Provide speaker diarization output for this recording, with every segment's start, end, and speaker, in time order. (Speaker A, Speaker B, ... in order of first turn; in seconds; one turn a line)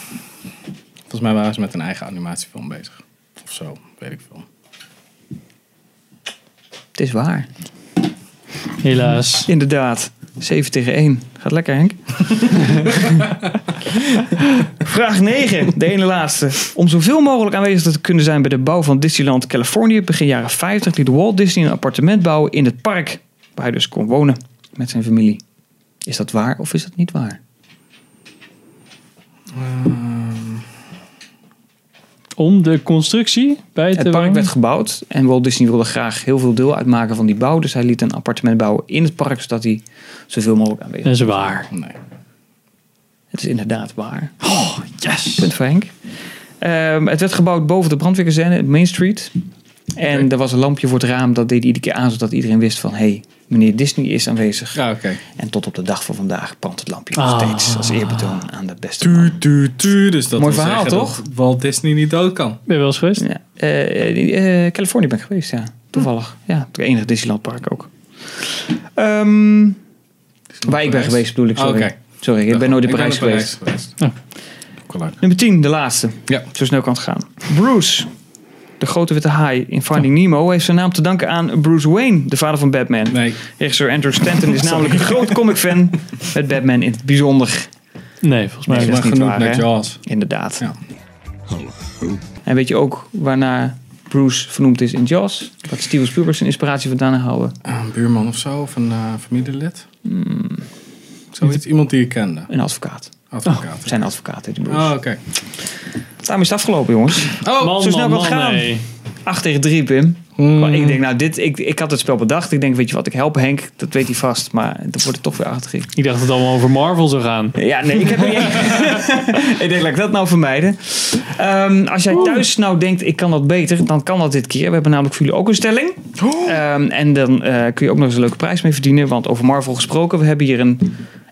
Speaker A: 1.1-4.5
Speaker B: 7.0-7.5
Speaker C: 8.8-9.5
Speaker B: 9.5-13.3
Speaker B: 13.9-25.4
Speaker B: 26.1-27.4
Speaker A: 29.5-30.6
Speaker C: 32.4-34.5
Speaker B: 34.0-41.3
Speaker C: 41.0-41.7
Speaker A: 41.7-42.0
Speaker B: 43.3-44.4
Speaker C: 44.4-45.5
Speaker B: 45.3-45.9
Speaker B: 46.6-49.3
Speaker B: 50.0-59.4
Speaker A: 54.8-55.2
Speaker C: 57.2-58.4
Speaker A: 59.0-62.6
Speaker B: 60.4-61.2
Speaker C: 62.7-63.2
Speaker B: 63.2-69.8
Speaker A: 70.6-72.0
Speaker B: 70.7-73.5
Speaker A: 72.5-74.0
Speaker A: 74.9-75.2
Speaker B: 75.2-78.1
Speaker B: 78.8-87.7
Speaker A: 83.1-83.4
Speaker A: 84.8-85.3
Speaker C: 88.2-89.0
Speaker B: 88.7-90.7
Speaker A: 88.7-90.0
Speaker B: 92.4-97.5
Speaker A: 97.7-99.9
Speaker B: 100.0-100.7
Speaker A: 101.3-102.5
Speaker B: 102.5-103.1
Speaker A: 103.3-104.0
Speaker B: 103.8-104.9
Speaker A: 104.7-105.2
Speaker B: 106.2-108.7
Speaker A: 107.4-107.8
Speaker C: 107.6-108.8
Speaker B: 109.2-116.0
Speaker A: 110.4-111.0
Speaker C: 115.9-117.6
Speaker B: 117.6-131.0